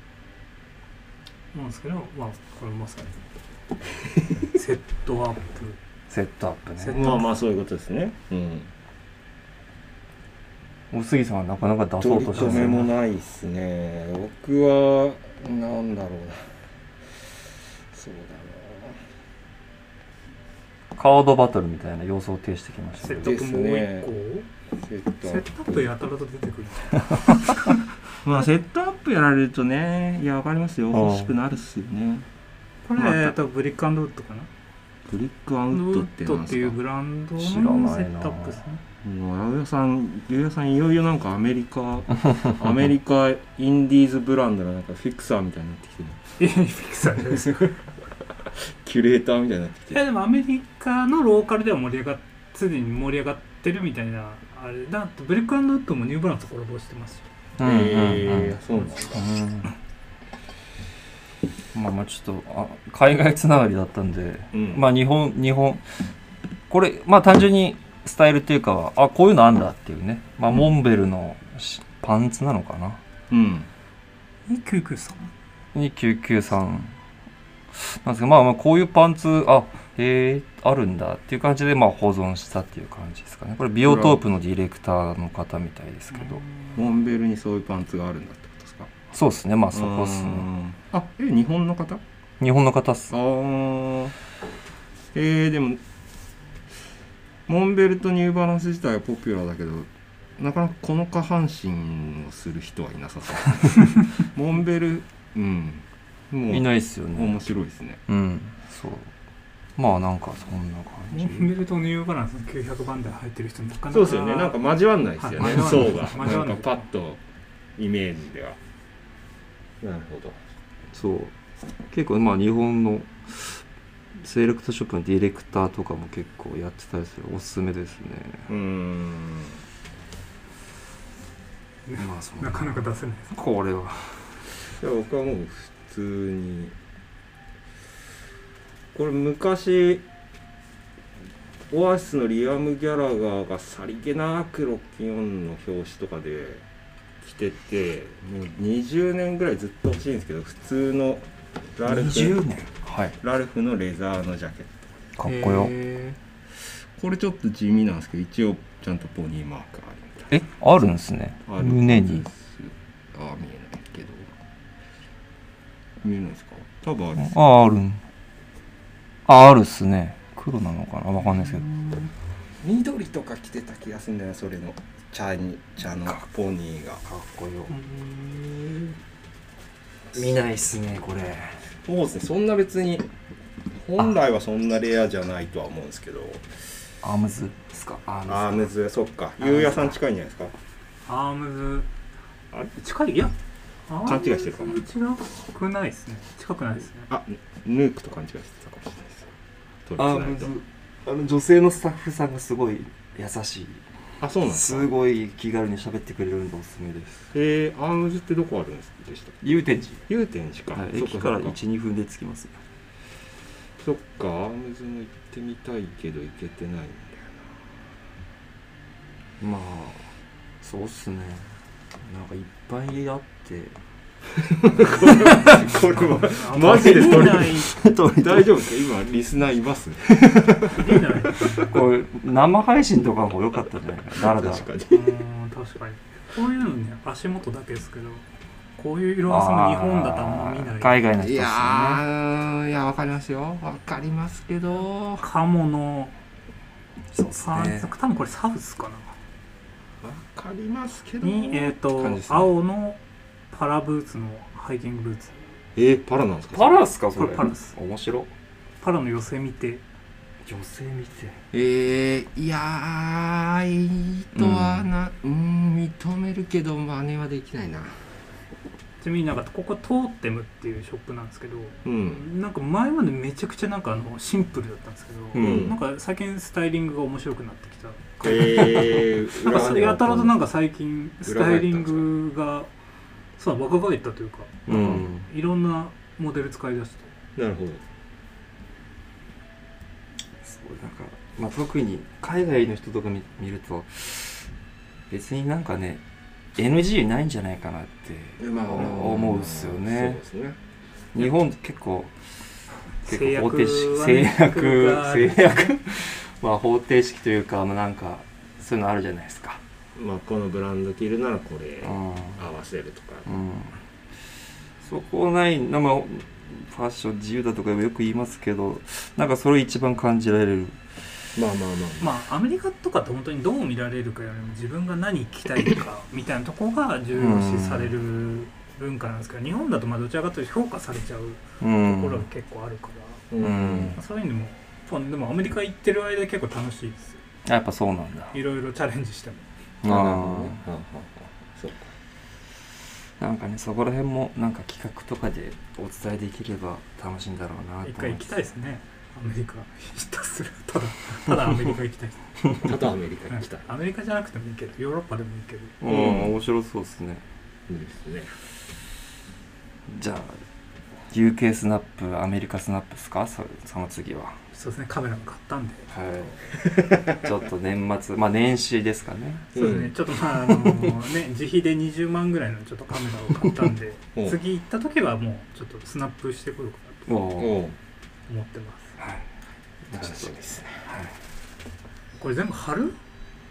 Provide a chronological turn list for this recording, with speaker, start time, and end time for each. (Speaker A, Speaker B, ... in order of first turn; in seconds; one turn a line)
Speaker A: 1.5-3.1
Speaker A: 4.5-5.8
Speaker B: 6.1-7.1
Speaker A: 6.8-7.3
Speaker C: 7.0-8.7
Speaker B: 10.9-12.9
Speaker C: 12.0-16.4
Speaker C: 17.9-19.0
Speaker B: 20.9-23.4
Speaker A: 23.0-24.5
Speaker C: 23.2-24.1
Speaker C: 24.8-25.5
Speaker A: 25.2-27.7
Speaker C: 28.2-32.2
Speaker B: 30.9-31.4
Speaker A: 32.9-34.5
Speaker C: 33.0-33.4
Speaker C: 35.1-36.8
Speaker A: 35.7-38.8
Speaker B: 37.4-38.6
Speaker C: 39.0-46.2
Speaker A: 46.4-47.7
Speaker C: 48.8-50.0
Speaker A: 49.9-57.2
Speaker B: 57.6-58.6
Speaker C: 57.6-59.3
Speaker B: 59.1-59.8
Speaker B: 61.7-65.8
Speaker C: 64.5-64.8
Speaker B: 66.7-73.0
Speaker C: 73.3-73.7
Speaker A: 74.5-75.3
Speaker B: 75.8-77.0
Speaker B: 77.7-86.4
Speaker C: 83.8-84.2
Speaker A: 86.1-86.8
Speaker C: 86.8-88.9
Speaker B: 89.1-90.5
Speaker C: 89.7-92.0
Speaker B: 92.4-93.1
Speaker C: 93.1-94.2
Speaker C: 95.1-95.8
Speaker C: 97.5-108.0
Speaker B: 106.5-107.5
Speaker B: 108.1-109.1
Speaker B: 109.8-111.5
Speaker A: 111.1-114.6
Speaker C: 113.9-117.2
Speaker A: 115.2-116.9
Speaker B: 115.4-116.0
Speaker C: 117.8-118.6
Speaker C: 119.8-120.4
Speaker B: 120.9-121.3
Speaker B: 121.9-123.6
Speaker B: 124.2-128.5
Speaker C: 128.5-129.6
Speaker A: 131.9-133.3
Speaker B: 132.0-134.4
Speaker C: 134.8-136.8
Speaker C: 138.9-140.1
Speaker C: 141.7-146.6
Speaker C: 147.2-151.2
Speaker C: 151.8-152.4
Speaker B: 151.9-153.2
Speaker C: 153.2-155.0
Speaker B: 155.2-155.8
Speaker A: 155.2-156.2
Speaker C: 157.0-160.4
Speaker B: 160.3-162.3
Speaker C: 161.5-164.3
Speaker C: 166.0-167.3
Speaker B: 167.2-168.0
Speaker B: 169.3-171.7
Speaker A: 171.3-172.1
Speaker C: 172.6-177.1
Speaker B: 177.1-177.7
Speaker A: 177.7-179.0
Speaker B: 180.1-181.6
Speaker C: 181.8-183.1
Speaker C: 183.8-186.4
Speaker B: 187.0-188.7
Speaker C: 188.3-190.5
Speaker A: 189.4-189.8
Speaker A: 191.1-191.9
Speaker A: 192.7-193.3
Speaker A: 193.9-197.1
Speaker C: 194.0-194.8
Speaker C: 197.1-199.3
Speaker C: 199.9-200.5
Speaker B: 200.0-203.8
Speaker C: 204.2-204.9
Speaker B: 204.5-207.3
Speaker C: 207.3-209.4
Speaker B: 209.4-210.0
Speaker C: 210.1-211.6
Speaker B: 210.7-212.6
Speaker C: 213.8-217.6
Speaker B: 219.4-220.1
Speaker B: 220.6-223.8
Speaker C: 224.6-227.6
Speaker A: 224.8-227.7
Speaker B: 225.0-228.6
Speaker C: 228.2-231.0
Speaker A: 230.7-231.8
Speaker B: 231.7-234.7
Speaker C: 234.2-235.1
Speaker A: 234.9-238.2
Speaker A: 238.8-241.1
Speaker B: 239.3-242.1
Speaker C: 241.2-245.3
Speaker A: 245.2-246.2
Speaker B: 247.1-247.9
Speaker A: 247.3-249.1
Speaker C: 250.0-252.5
Speaker A: 251.2-253.0
Speaker A: 253.5-255.3
Speaker C: 255.8-256.8
Speaker B: 256.5-258.3
Speaker A: 257.2-257.7
Speaker A: 258.8-259.8
Speaker B: 260.4-261.4
Speaker C: 261.5-268.1
Speaker B: 264.4-264.9
Speaker A: 269.0-282.7
Speaker C: 271.9-272.3
Speaker B: 275.3-275.8
Speaker C: 275.3-275.8
Speaker C: 278.2-280.4
Speaker C: 281.2-282.1
Speaker A: 283.4-287.1
Speaker B: 284.7-285.3
Speaker C: 284.7-285.1
Speaker C: 287.4-287.8
Speaker B: 290.4-294.5
Speaker B: 295.1-296.0
Speaker B: 296.6-300.2
Speaker C: 298.4-300.6
Speaker B: 301.1-302.1
Speaker A: 303.0-305.7
Speaker B: 303.1-309.6
Speaker C: 310.0-313.3
Speaker B: 311.8-312.4
Speaker B: 313.3-313.8
Speaker B: 314.8-320.8
Speaker C: 321.4-322.2
Speaker A: 322.0-333.3
Speaker B: 327.1-327.9
Speaker B: 331.6-332.3
Speaker C: 333.3-334.0
Speaker B: 333.4-334.0
Speaker A: 333.9-337.2
Speaker B: 337.5-338.3
Speaker A: 338.3-339.5
Speaker B: 339.8-340.6
Speaker C: 339.9-341.9
Speaker B: 343.2-348.4
Speaker A: 347.8-355.8
Speaker C: 352.6-353.7
Speaker B: 355.8-357.2
Speaker C: 355.9-356.4
Speaker C: 357.7-358.3
Speaker B: 359.9-360.4
Speaker B: 361.1-364.4
Speaker A: 364.5-365.9
Speaker B: 365.9-366.5
Speaker C: 366.6-367.2
Speaker B: 367.1-369.7
Speaker C: 369.6-369.9
Speaker A: 369.6-377.1
Speaker B: 377.1-377.6
Speaker C: 377.4-377.8
Speaker A: 378.3-379.0
Speaker B: 379.9-380.4
Speaker C: 379.9-380.9
Speaker B: 380.9-381.1
Speaker A: 382.2-383.0